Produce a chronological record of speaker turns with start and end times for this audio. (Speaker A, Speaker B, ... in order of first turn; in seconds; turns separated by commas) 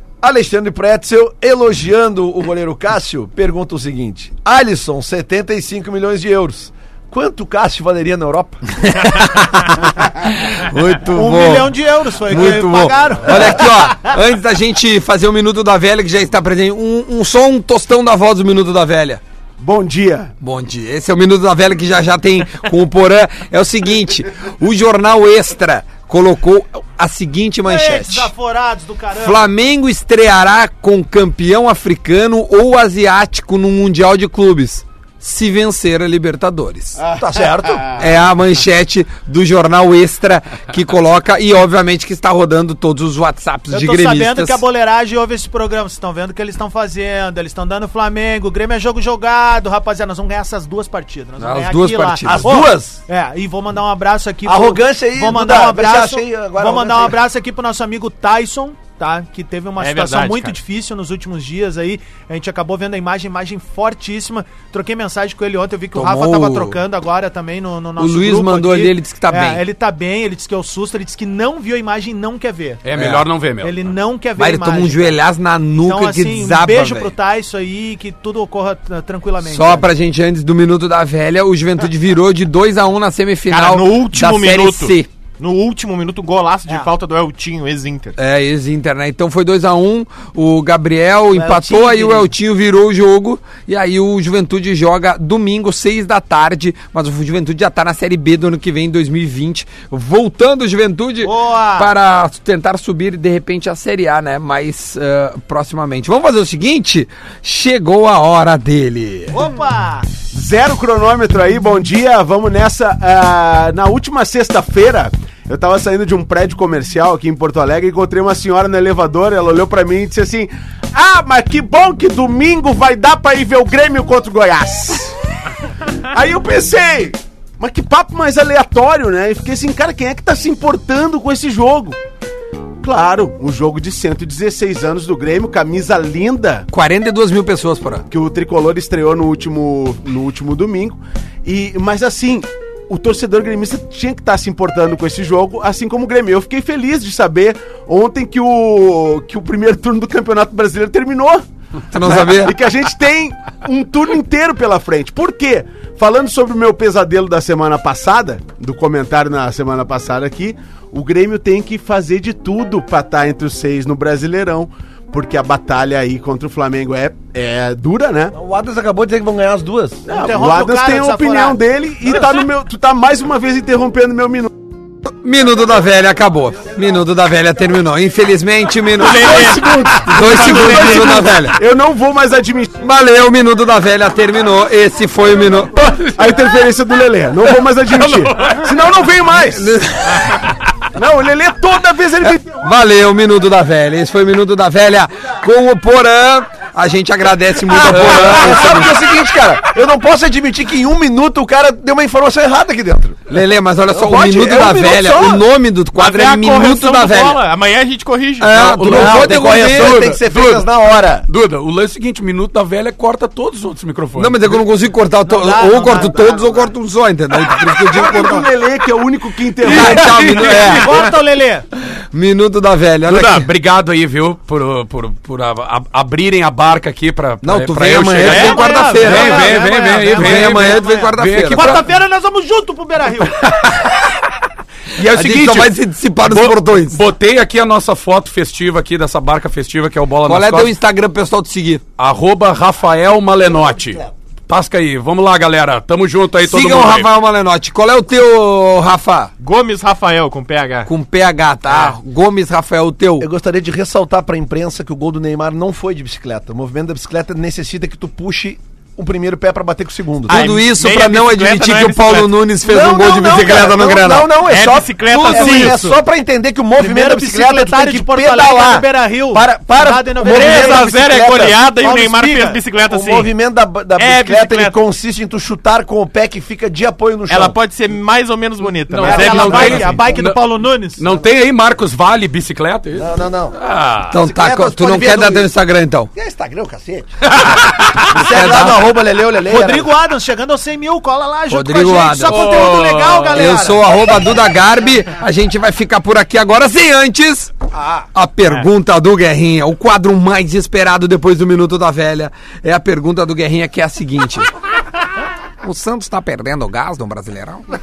Speaker A: 0.2-8.6, Speaker B: 8.9-11.7, Speaker C: 11.0-14.1, Speaker B: 12.2-19.2, Speaker D: 19.6-20.3, Speaker B: 20.4-28.3, Speaker C: 27.6-29.4, Speaker B: 29.1-37.0, Speaker A: 37.1-37.9, Speaker B: 38.0-44.6, Speaker C: 43.7-72.8, Speaker B: 51.4-52.5, Speaker A: 52.2-53.0, Speaker A: 54.4-57.2, Speaker E: 59.8-60.6, Speaker B: 65.9-66.8, Speaker B: 68.0-69.6, Speaker F: 72.8-73.9, Speaker B: 73.0-73.2, Speaker C: 73.6-75.2, Speaker B: 74.4-77.1, Speaker C: 75.7-79.9, Speaker B: 79.4-85.1, Speaker E: 83.5-88.2, Speaker B: 88.2-109.4, Speaker C: 91.3-92.3, Speaker C: 101.2-101.9, Speaker C: 109.3-110.1, Speaker D: 110.3-125.1, Speaker D: 126.1-132.0, Speaker D: 132.8-136.7, Speaker B: 136.7-138.0, Speaker D: 138.1-151.4, Speaker B: 151.9-152.6, Speaker D: 152.0-168.3, Speaker A: 168.3-170.1, Speaker C: 170.1-171.6, Speaker D: 170.1-174.5, Speaker B: 175.2-181.6, Speaker E: 179.0-181.2, Speaker D: 179.0-182.8, Speaker B: 182.8-185.8, Speaker D: 186.0-189.7, Speaker E: 188.3-188.6, Speaker B: 189.4-190.4, Speaker D: 190.9-192.4, Speaker B: 192.2-198.9, Speaker A: 197.7-203.2, Speaker F: 197.9-198.6, Speaker B: 203.3-207.4, Speaker A: 203.9-205.4, Speaker E: 205.9-208.7, Speaker B: 208.4-210.1, Speaker F: 208.5-210.7, Speaker A: 208.8-211.2, Speaker F: 211.3-214.6, Speaker B: 214.2-218.5, Speaker C: 215.2-216.7, Speaker D: 217.8-220.2, Speaker B: 219.6-220.9, Speaker F: 219.6-221.1, Speaker C: 220.5-221.7, Speaker B: 222.1-223.5, Speaker F: 223.1-231.9, Speaker B: 227.4-231.8, Speaker C: 228.2-233.4, Speaker F: 233.6-233.9, Speaker F: 235.0-235.7, Speaker B: 235.1-237.0, Speaker F: 236.2-240.7, Speaker B: 240.2-241.8, Speaker F: 242.0-247.1, Speaker A: 243.5-244.1, Speaker B: 246.4-249.3, Speaker E: 249.4-250.9, Speaker B: 250.8-253.3, Speaker E: 251.7-251.9, Speaker A: 253.2-260.4, Speaker E: 260.3-262.4, Speaker B: 260.3-264.3, Speaker A: 262.6-271.6, Speaker E: 264.4-265.9, Speaker B: 265.1-265.8, Speaker C: 266.8-271.0, Speaker E: 270.2-273.3, Speaker C: 271.5-272.6, Speaker A: 272.8-277.6, Speaker E: 273.9-274.8, Speaker E: 277.3-279.9, Speaker F: 278.9-284.1, Speaker C: 279.0-281.0, Speaker A: 282.9-283.6, Speaker B: 284.1-286.1, Speaker A: 284.1-285.5, Speaker A: 286.1-287.3, Speaker A: 288.0-289.9, Speaker B: 288.1-288.9, Speaker C: 289.4-293.9, Speaker B: 291.5-292.7, Speaker F: 292.3-293.4, Speaker B: 293.3-297.6, Speaker B: 298.1-304.5, Speaker B: 305.6-307.6